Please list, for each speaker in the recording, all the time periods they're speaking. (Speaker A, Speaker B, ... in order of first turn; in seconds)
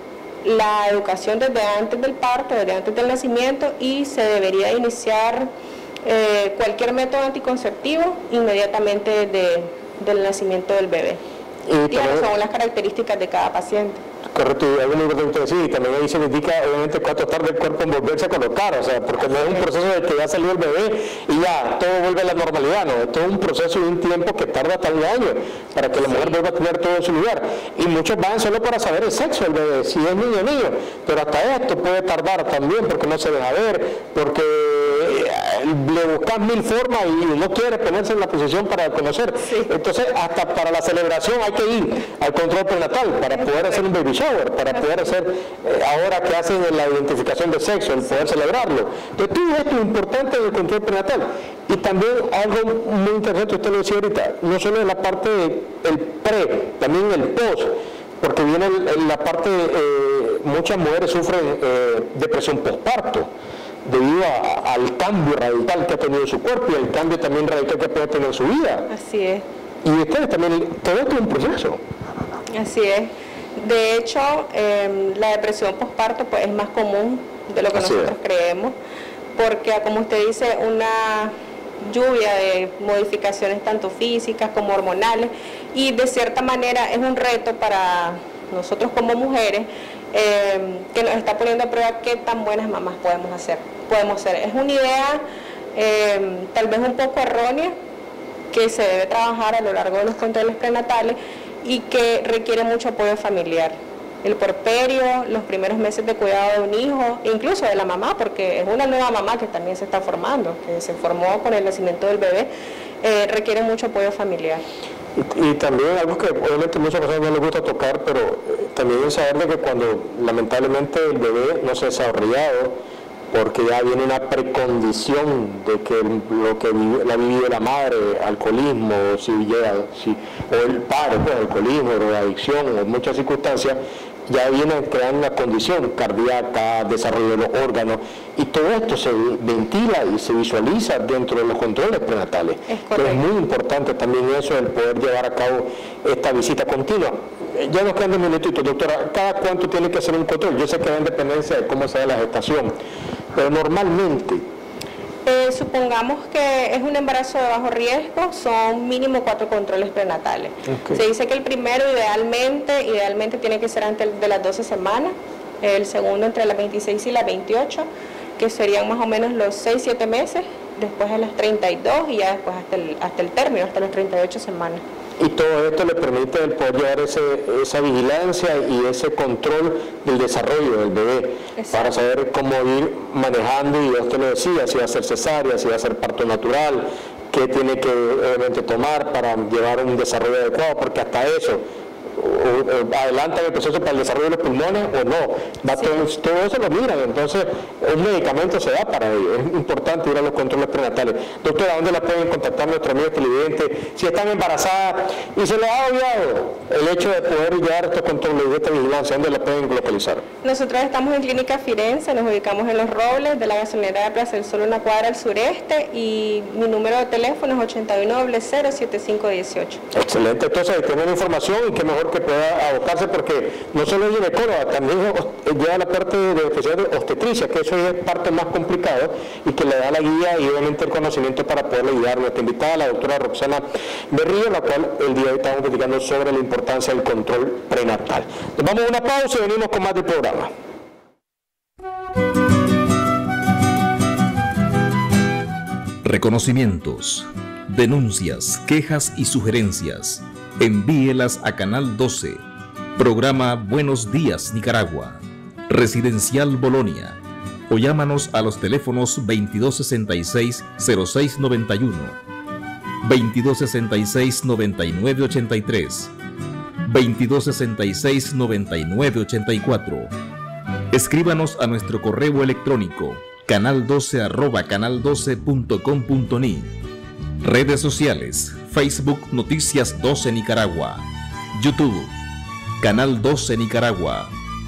Speaker A: 0.4-5.5, 6.0-11.2, 11.9-14.0, 19.3-19.6, 26.0-26.3, 68.9-69.4, 72.5-78.7, 79.3-95.2, 95.8-97.7, 98.5-112.5, 113.0-114.6, 142.7-143.2, 155.2-174.8, 181.6-181.9, 210.4-219.8
Speaker B: 11.7-12.3, 14.3-63.3, 63.9-68.9, 69.8-71.8, 77.7-78.1, 115.2-122.8, 123.3-152.7, 153.3-154.4, 160.7-161.0, 175.2-191.6, 192.2-210.2, 219.9-240.5
Speaker C: 246.0-252.4, 253.0-262.2, 263.0-266.1, 266.9-270.1, 270.9-276.7, 277.4-282.1, 282.8-284.3